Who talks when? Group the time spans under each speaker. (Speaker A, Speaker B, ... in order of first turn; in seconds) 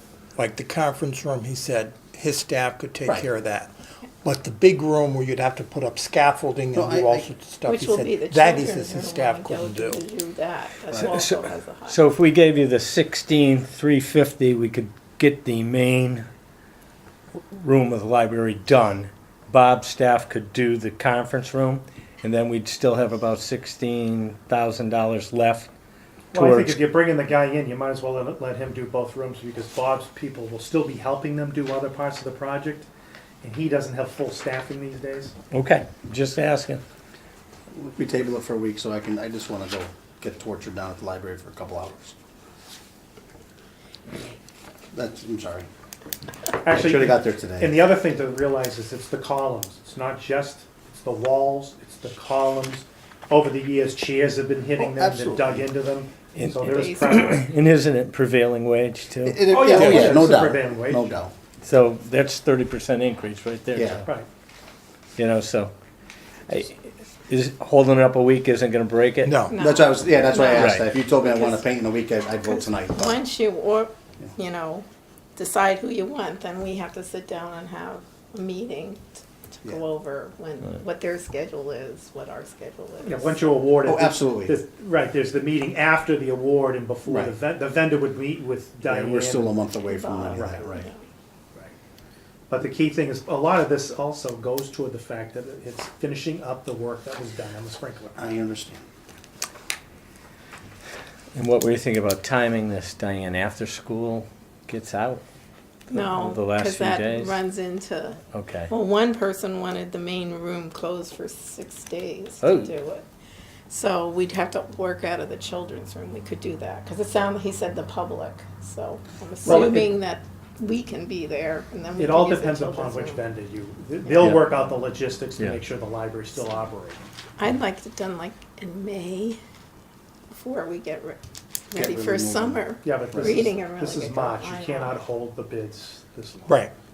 Speaker A: 0.4-10.0, 69.2-69.6, 136.5-136.7
Speaker B: 6.8-7.3, 10.9-11.2, 37.7-42.2, 44.9-45.7, 46.7-47.8, 54.8-55.7, 59.3-61.3, 63.8-64.0, 69.6-73.2, 83.8-84.6, 87.1-87.3, 88.8-90.9, 98.2-98.8, 119.4-120.0, 131.7-133.5
Speaker C: 7.7-12.1, 56.6-57.2, 69.5-71.7, 72.4-74.8, 75.4-83.6, 89.8-91.0, 105.9-113.1, 113.7-123.3, 127.4-129.4, 130.3-131.2, 131.7-135.0
Speaker D: 11.1-16.3, 17.5-25.7, 26.3-26.8, 35.5-36.8, 56.4-60.2, 61.6-64.1, 65.2-65.7, 66.5-69.4, 70.5-70.9, 101.3-105.2, 105.9-107.4, 108.3-108.7, 112.4-112.7
Speaker E: 26.3-32.9, 33.4-35.4, 46.6-57.4, 59.5-61.1, 83.0-89.6, 90.3-90.7, 92.5-98.3, 119.5-119.8, 122.0-127.0, 132.8-136.6